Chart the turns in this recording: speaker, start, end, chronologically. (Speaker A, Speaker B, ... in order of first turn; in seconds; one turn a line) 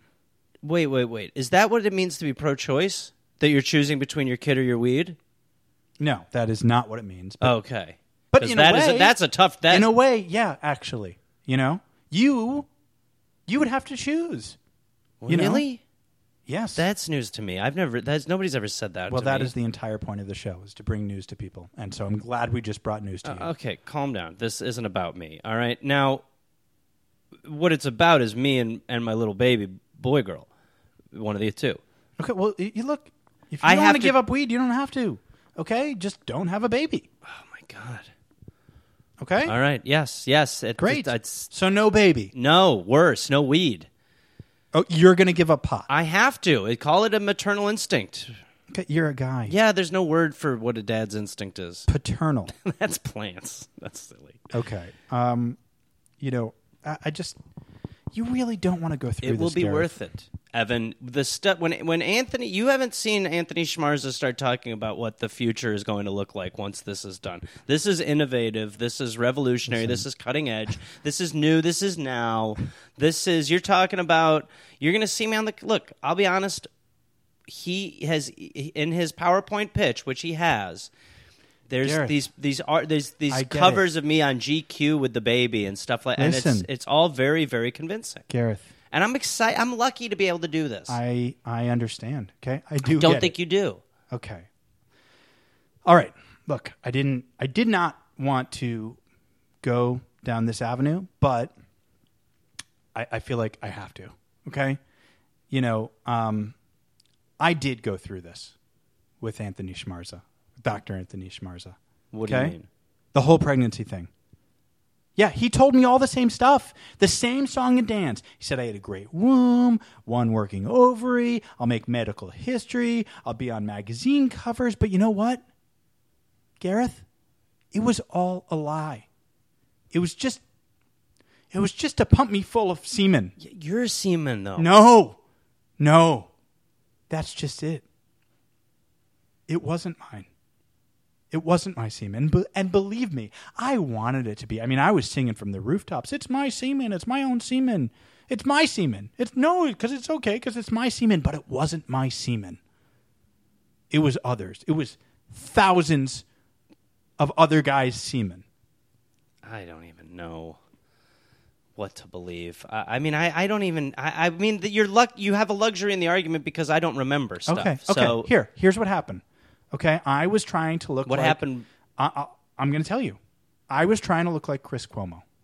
Speaker A: 0.6-5.2
Speaker B: 6.0-7.5
Speaker A: 7.4-9.9
Speaker B: 8.3-9.2
Speaker B: 9.7-12.7
Speaker B: 13.5-14.6
Speaker A: 15.2-15.8
Speaker B: 15.3-15.7
Speaker B: 16.5-16.9
Speaker A: 16.8-19.5
Speaker B: 19.1-23.5
Speaker A: 23.2-26.2
Speaker A: 27.4-30.5
Speaker A: 31.1-31.8
Speaker B: 32.2-37.1
Speaker A: 33.6-34.2
Speaker A: 37.2-38.1
Speaker B: 39.2-39.5
Speaker A: 39.5-41.5
Speaker B: 40.8-42.3
Speaker A: 42.3-43.9
Speaker B: 44.7-45.9
Speaker A: 45.9-48.4
Speaker B: 48.7-49.5
Speaker A: 49.5-51.9
Speaker B: 51.9-52.5
Speaker A: 52.5-54.4
Speaker B: 54.5-55.6
Speaker B: 56.2-57.4
Speaker B: 58.1-59.9
Speaker A: 59.2-76.7
Speaker B: 69.7-70.0
Speaker A: 77.5-80.9
Speaker A: 81.7-88.2
Speaker B: 81.8-82.2
Speaker B: 83.3-83.8
Speaker B: 86.2-86.7
Speaker B: 88.3-88.7
Speaker A: 88.9-91.0
Speaker B: 90.9-93.3
Speaker A: 92.8-93.8
Speaker B: 94.1-94.5
Speaker B: 95.9-99.0
Speaker B: 99.6-101.5
Speaker B: 103.0-104.8
Speaker B: 105.5-106.5
Speaker B: 107.4-108.5
Speaker B: 109.2-112.6
Speaker A: 112.1-112.7
Speaker B: 113.1-114.1
Speaker B: 115.2-125.4
Speaker B: 126.6-127.0
Speaker B: 127.7-129.1
Speaker B: 129.9-130.4
Speaker B: 131.5-133.3
Speaker A: 133.4-134.7
Speaker B: 134.6-135.2
Speaker B: 135.8-136.3
Speaker B: 137.1-137.8
Speaker B: 139.5-140.3
Speaker B: 141.3-152.6
Speaker B: 153.9-156.2
Speaker B: 157.2-158.4
Speaker A: 159.4-160.6
Speaker A: 161.8-168.3
Speaker B: 167.5-171.4
Speaker A: 171.1-171.7
Speaker B: 172.0-173.2
Speaker B: 173.7-175.2